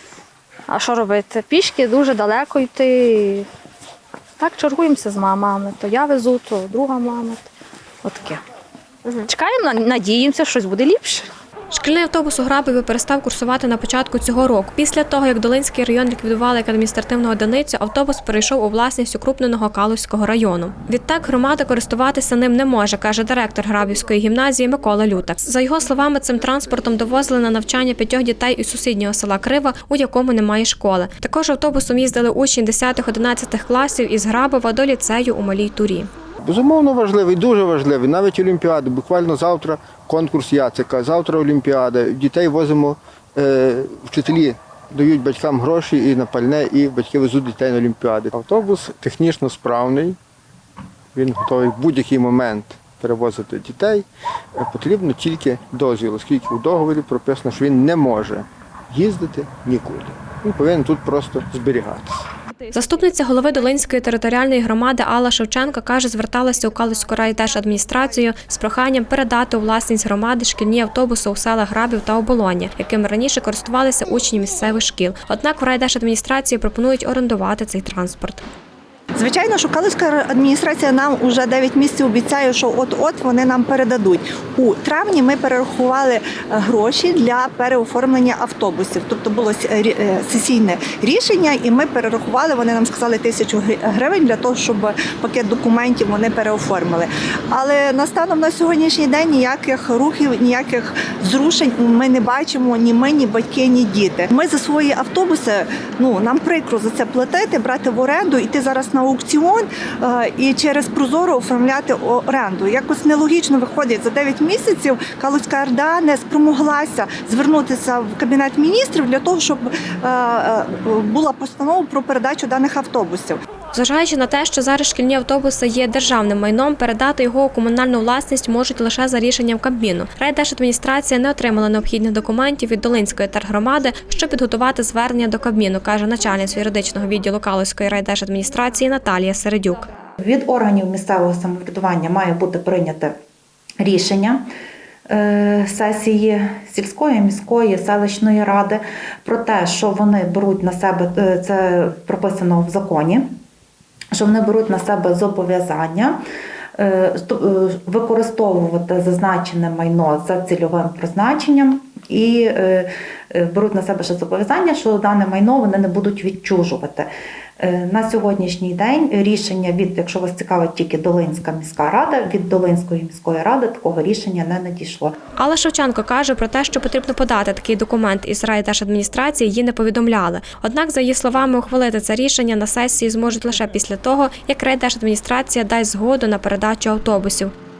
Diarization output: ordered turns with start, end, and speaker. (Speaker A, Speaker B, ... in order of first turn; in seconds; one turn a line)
Speaker A: 0.7-3.5
Speaker A: 4.4-7.5
Speaker A: 8.0-8.4
Speaker A: 9.0-11.3
Speaker B: 11.7-36.1
Speaker C: 36.4-50.2
Speaker C: 51.1-62.3
Speaker B: 62.7-78.4
Speaker D: 79.2-123.4
Speaker B: 123.7-139.8
Speaker E: 140.2-143.1
Speaker E: 143.8-144.4
Speaker E: 145.1-153.3
Speaker E: 154.1-156.2
Speaker E: 156.8-175.2
Speaker B: 175.4-187.5